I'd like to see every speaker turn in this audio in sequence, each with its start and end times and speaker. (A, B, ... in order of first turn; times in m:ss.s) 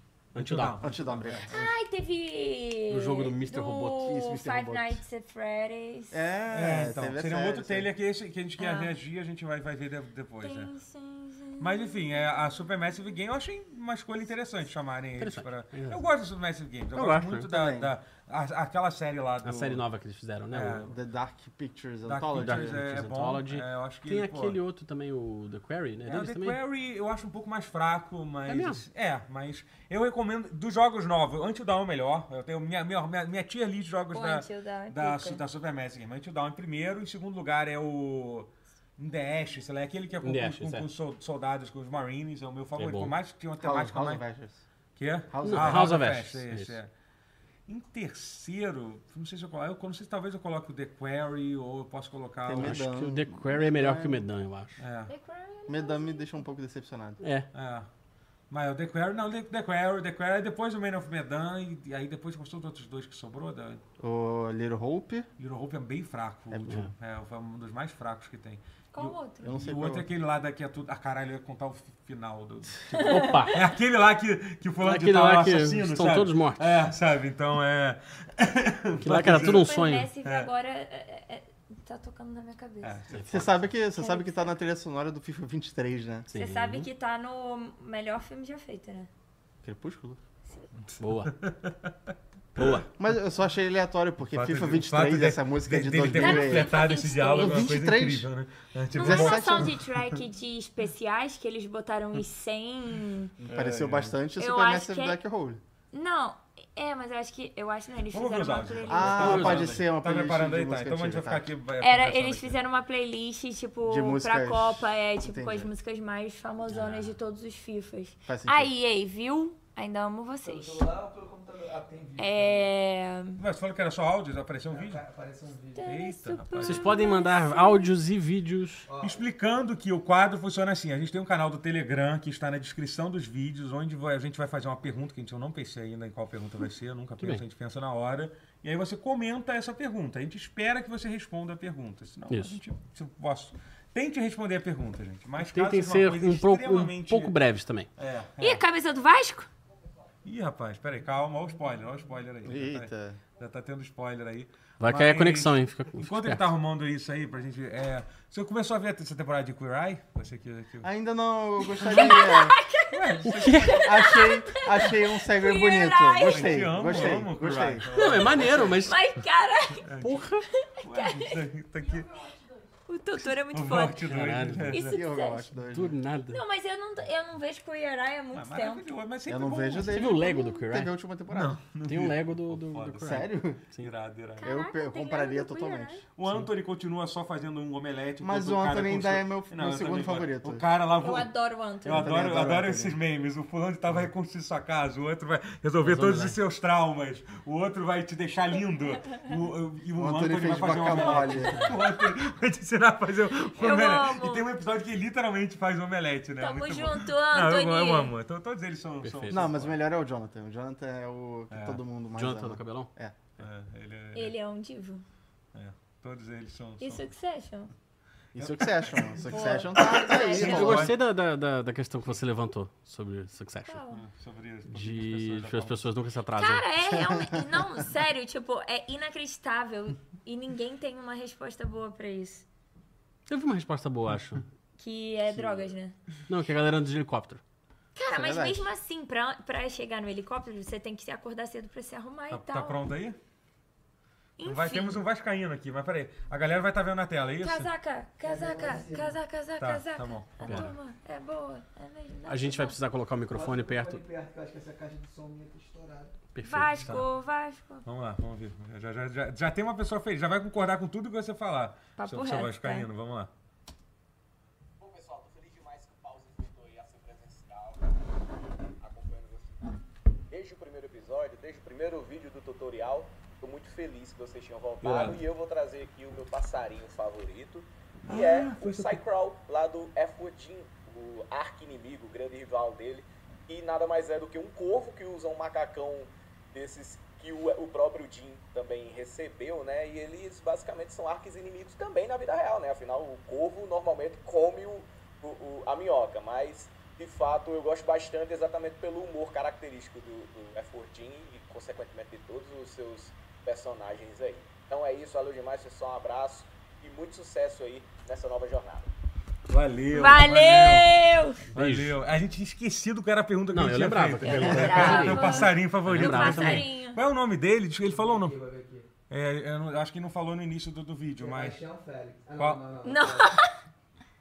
0:00.4-0:00.8 A
0:00.4-0:01.7 B
0:00.8-0:01.6 C
0:01.5-0:06.2 D
0:02.9-0:04.2 A
0:04.0-0:05.0 C
0:06.1-0:07.9 C
0:06.5-0:10.7 B
0:08.6-0:08.9 D
0:10.4-0:12.7 D
0:11.6-0:19.8 B
0:15.2-0:16.0 A
0:17.0-0:17.5 A
0:17.3-0:17.9 C
0:19.4-0:20.9 A
0:20.5-0:20.9 B
0:20.9-0:22.8 C
0:22.1-0:24.6 B
0:22.4-0:26.6 A
0:26.1-0:44.2 B
0:28.5-0:28.8 A
0:34.1-0:35.4 D
0:40.2-0:40.9 A
0:42.8-0:43.1 A
0:43.6-0:44.6 C
0:45.0-0:46.9 B
0:45.3-0:46.0 C
0:45.4-0:46.8 A
0:47.7-0:52.8 B
0:52.4-0:54.3 C
0:52.6-0:54.8 A
0:54.8-0:55.1 B
0:55.1-0:56.4 D
0:55.7-0:57.2 C
0:57.2-0:57.5 A
0:57.5-0:57.9 B
0:58.5-1:03.8 B
1:04.0-1:05.3 C
1:05.4-1:20.5 B
1:06.5-1:06.8 C
1:08.9-1:09.6 D
1:09.4-1:10.0 C
1:13.0-1:13.5 D
1:13.0-1:13.6 A
1:14.8-1:16.6 A
1:19.0-1:20.1 A
1:19.2-1:23.0 D
1:22.8-1:23.6 B
1:23.1-1:23.4 A
1:23.3-1:26.3 C
1:24.0-1:24.5 D
1:26.3-1:26.9 A
1:26.3-1:29.1 D
1:29.6-1:30.2 C
1:30.9-1:31.9 B
1:31.0-1:31.3 A
1:32.6-1:32.9 A
1:33.0-1:36.8 C
1:34.3-1:39.8 B
1:36.1-1:37.8 D
1:37.3-1:38.3 C
1:38.9-1:43.3 D
1:39.0-1:39.8 C
1:43.4-1:44.2 B
1:43.5-1:45.6 C
1:44.4-1:45.2 D
1:45.9-1:49.6 D
1:48.1-1:52.6 B
1:48.9-1:51.5 C
1:49.2-1:49.8 A
1:51.8-2:00.8 D
1:53.9-1:55.7 C
1:58.3-1:58.7 C
2:00.4-2:02.7 E
2:02.2-2:03.4 D
2:03.4-2:05.0 B
2:04.7-2:05.9 E
2:05.8-2:07.9 D
2:05.8-2:06.9 B
2:06.6-2:08.9 A
2:08.9-2:09.3 E
2:09.0-2:27.3 B
2:22.3-2:22.6 A
2:25.4-2:27.9 A
2:28.0-2:28.6 B
2:28.4-2:29.5 D
2:30.2-2:40.9 B
2:32.4-2:33.2 C
2:34.8-2:36.4 A
2:40.8-2:42.6 C
2:41.6-2:46.7 D
2:42.9-2:44.3 B
2:43.2-2:43.8 A
2:43.8-2:47.8 C
2:46.2-2:48.9 B
2:47.9-2:49.0 A
2:48.3-2:49.9 D
2:49.8-2:50.3 B
2:50.0-2:50.4 A
2:50.7-2:51.4 D
2:50.8-2:52.2 B
2:52.0-2:54.1 D
2:53.2-2:55.0 B
2:54.1-2:54.8 A
2:54.7-2:55.5 D
2:54.9-2:56.0 C
2:55.7-2:56.4 A
2:56.3-2:58.9 D
2:58.3-3:00.0 B
2:59.3-3:01.6 C
2:59.7-3:01.0 A
3:00.2-3:00.6 D
3:01.3-3:04.5 B
3:01.9-3:03.9 A
3:03.0-3:03.6 C
3:04.4-3:06.0 D
3:04.4-3:06.0 C
3:06.2-3:29.8 B
3:08.2-3:10.6 C
3:11.0-3:12.3 D
3:11.8-3:13.0 C
3:15.8-3:16.4 A
3:20.0-3:21.7 C
3:20.8-3:21.8 D
3:23.6-3:24.4 D
3:26.4-3:28.1 D
3:29.0-3:29.5 A
3:29.3-3:33.4 C
3:31.5-3:31.8 B
3:32.2-3:32.9 A
3:33.4-3:34.4 B
3:34.2-3:35.0 D
3:35.5-3:37.0 B
3:36.8-3:37.7 D
3:38.4-3:40.9 C
3:38.4-3:41.0 B
3:39.2-3:40.9 D
3:40.4-3:43.8 A
3:43.7-3:44.0 D
3:43.9-3:45.8 B
3:44.7-3:46.7 A
3:46.4-3:52.5 D
3:53.3-3:54.4 A
3:54.8-3:56.0 D
3:56.3-3:57.4 A
3:58.0-4:02.8 D
3:58.1-3:58.7 C
4:02.3-4:03.2 B
4:04.4-4:05.0 D
4:04.4-4:07.7 B
4:07.4-4:12.8 D
4:08.2-4:09.2 E
4:09.6-4:10.8 B
4:10.4-4:10.7 A
4:12.3-4:14.0 A
4:13.3-4:16.1 E
4:16.4-4:16.8 A
4:16.4-4:17.8 D
4:16.8-4:17.1 B
4:17.8-4:23.3 B
4:22.0-4:22.9 D
4:24.8-4:27.9 F
4:28.8-4:29.8 F
4:30.3-5:08.9 F
4:34.8-4:35.2 A
4:38.1-4:39.0 B
5:09.5-5:11.0 B
5:09.9-5:11.4 D
5:11.5-5:18.4 B
5:11.5-5:12.0 A
5:13.5-5:16.6 A
5:14.2-5:17.0 D
5:17.9-5:18.9 E
5:19.1-5:21.6 B
5:21.2-5:23.4 E
5:22.4-5:22.6 B
5:22.8-5:23.5 D